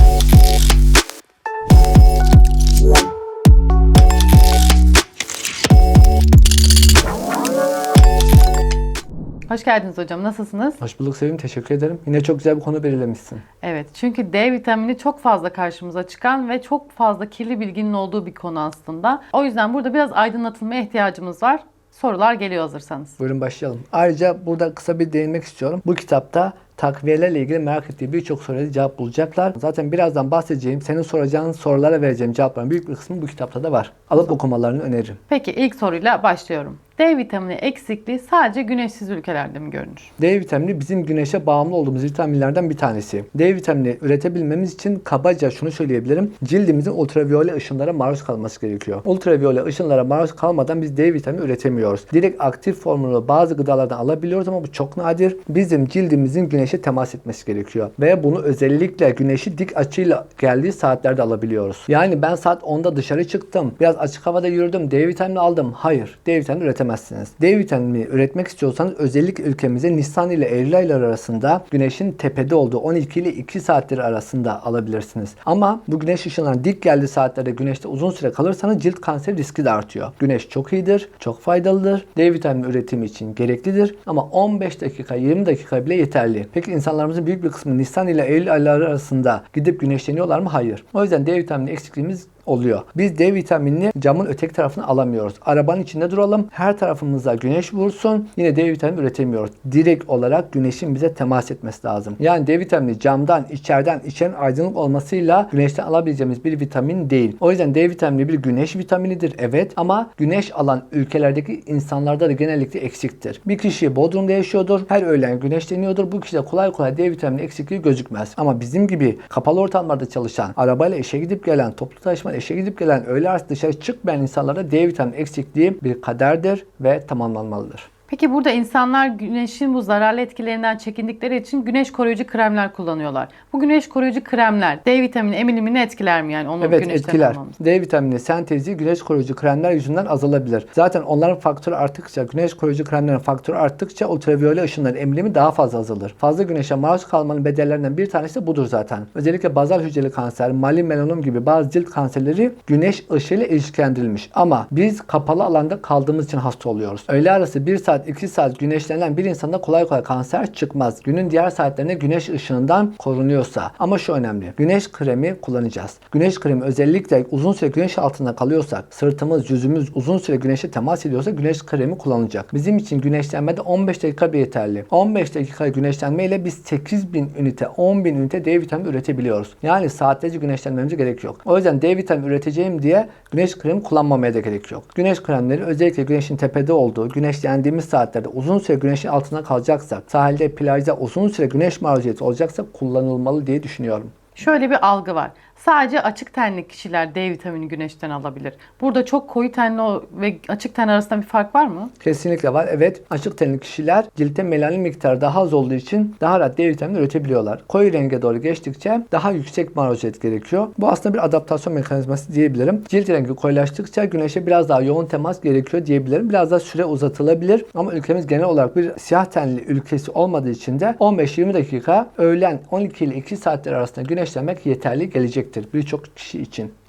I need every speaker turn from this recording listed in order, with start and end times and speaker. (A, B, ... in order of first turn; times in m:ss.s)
0:09.5-0:10.8 A
0:10.8-0:13.4 B
0:13.6-0:23.2 A
0:23.2-0:35.2 B
0:35.3-0:40.1 A
0:40.2-2:07.9 B
2:08.1-2:17.5 A
2:16.6-3:14.1 B
3:14.4-3:21.9 A
3:22.0-3:46.7 B